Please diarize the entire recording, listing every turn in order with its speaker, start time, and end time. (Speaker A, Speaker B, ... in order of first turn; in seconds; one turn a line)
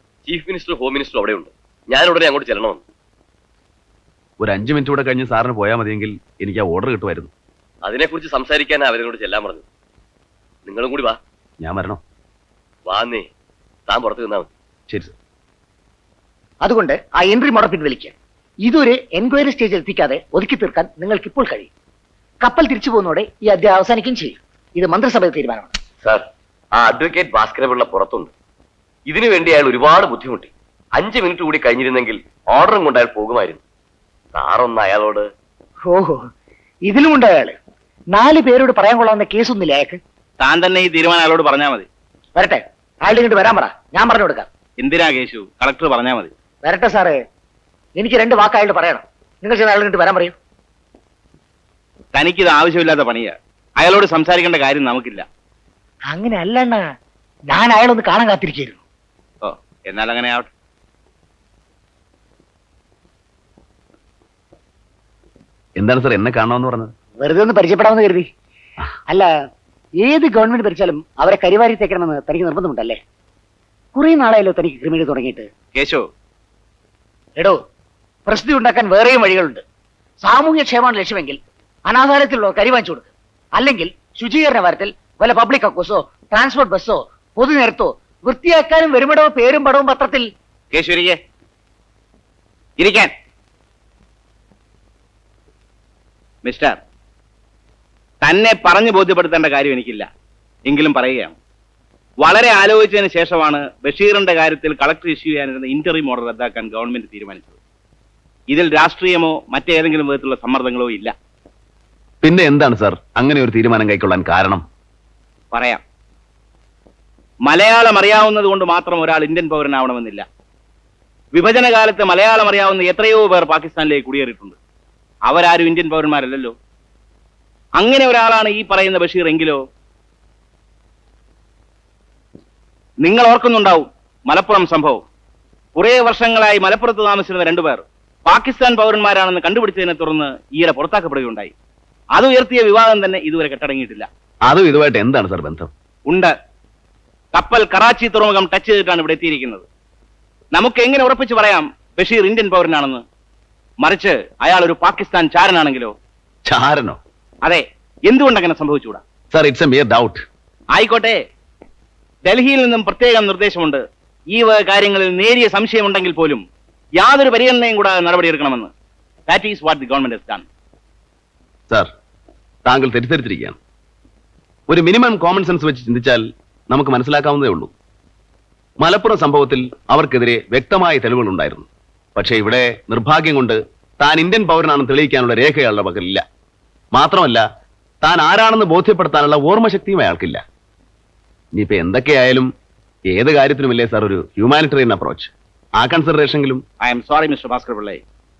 Speaker A: 0.2-2.8
Speaker B: 4.4-7.3
Speaker A: 7.8-9.6
Speaker A: 10.7-11.2
Speaker B: 11.6-12.0
Speaker A: 12.8-13.3
Speaker A: 13.9-14.5
Speaker B: 14.9-15.1
Speaker C: 16.6-21.7
Speaker C: 22.4-25.7
Speaker A: 26.0-28.3
Speaker A: 29.1-33.6
Speaker A: 34.3-35.2
Speaker C: 35.8-36.2
Speaker C: 36.8-37.5
Speaker C: 38.1-40.0
Speaker D: 40.4-41.8
Speaker C: 42.4-44.5
Speaker D: 44.8-46.3
Speaker C: 46.6-47.2
Speaker C: 48.0-50.3
Speaker D: 52.1-55.2
Speaker C: 56.1-56.8
Speaker C: 57.5-58.8
Speaker D: 59.4-60.5
Speaker B: 65.8-66.9
Speaker C: 67.2-68.3
Speaker C: 70.0-73.0
Speaker C: 73.9-75.5
Speaker D: 75.7-76.0
Speaker C: 78.3-79.6
Speaker C: 80.2-90.3
Speaker D: 90.7-91.2
Speaker D: 92.8-93.1
Speaker D: 96.5-96.8
Speaker D: 98.2-100.1
Speaker D: 100.7-101.3
Speaker D: 102.2-107.5
Speaker D: 108.5-111.1
Speaker B: 112.2-114.6
Speaker D: 115.5-115.8
Speaker D: 117.5-120.2
Speaker D: 121.3-124.5
Speaker D: 125.3-126.5
Speaker D: 127.8-129.6
Speaker D: 133.0-135.0
Speaker D: 135.8-141.5
Speaker D: 142.1-144.1
Speaker B: 144.4-145.7
Speaker D: 147.3-149.6
Speaker D: 150.6-153.0
Speaker D: 153.8-155.9
Speaker B: 156.4-157.0
Speaker D: 157.4-159.0
Speaker B: 159.3-160.2
Speaker D: 160.8-161.2
Speaker D: 162.3-163.8
Speaker D: 164.3-166.4
Speaker D: 167.0-168.7
Speaker D: 169.3-170.4
Speaker B: 172.6-173.6
Speaker B: 174.7-177.7
Speaker B: 178.8-186.2
Speaker B: 186.9-187.4
Speaker B: 188.0-190.4
Speaker B: 191.5-192.5
Speaker B: 193.1-196.6
Speaker D: 196.8-198.0